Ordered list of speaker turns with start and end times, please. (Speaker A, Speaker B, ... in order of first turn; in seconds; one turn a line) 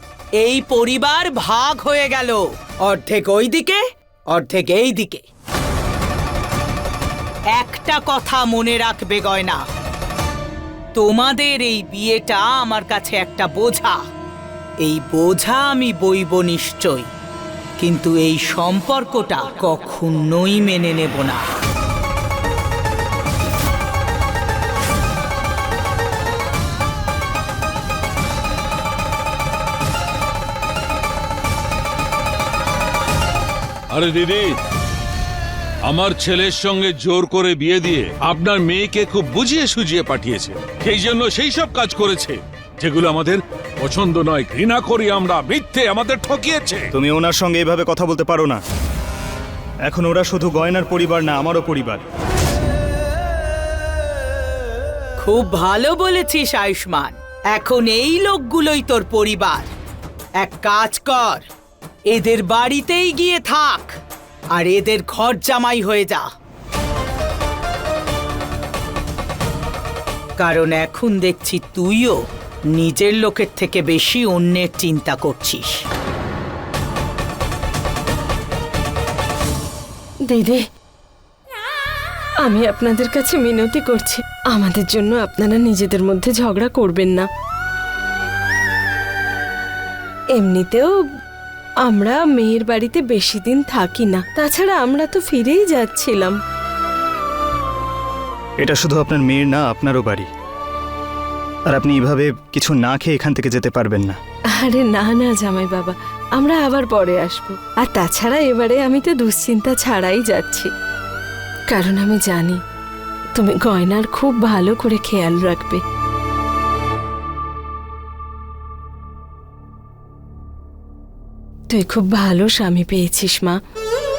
Speaker A: 0.4-3.8
Speaker A: 4.3-5.2
Speaker A: 7.5-9.6
Speaker A: 11.0-14.0
Speaker A: 14.8-17.1
Speaker A: 17.8-21.4
Speaker B: 33.9-34.5
Speaker B: 35.9-46.8
Speaker C: 47.0-48.6
Speaker C: 49.9-52.0
Speaker A: 55.2-59.7
Speaker A: 60.4-61.4
Speaker A: 62.1-63.9
Speaker A: 64.5-66.3
Speaker A: 70.4-72.2
Speaker A: 72.7-75.8
Speaker D: 80.3-80.6
Speaker D: 82.4-87.3
Speaker D: 90.3-90.9
Speaker D: 91.8-96.3
Speaker C: 98.6-100.3
Speaker C: 101.7-104.2
Speaker D: 104.6-110.7
Speaker D: 111.7-112.5
Speaker D: 113.3-115.8
Speaker D: 121.7-123.5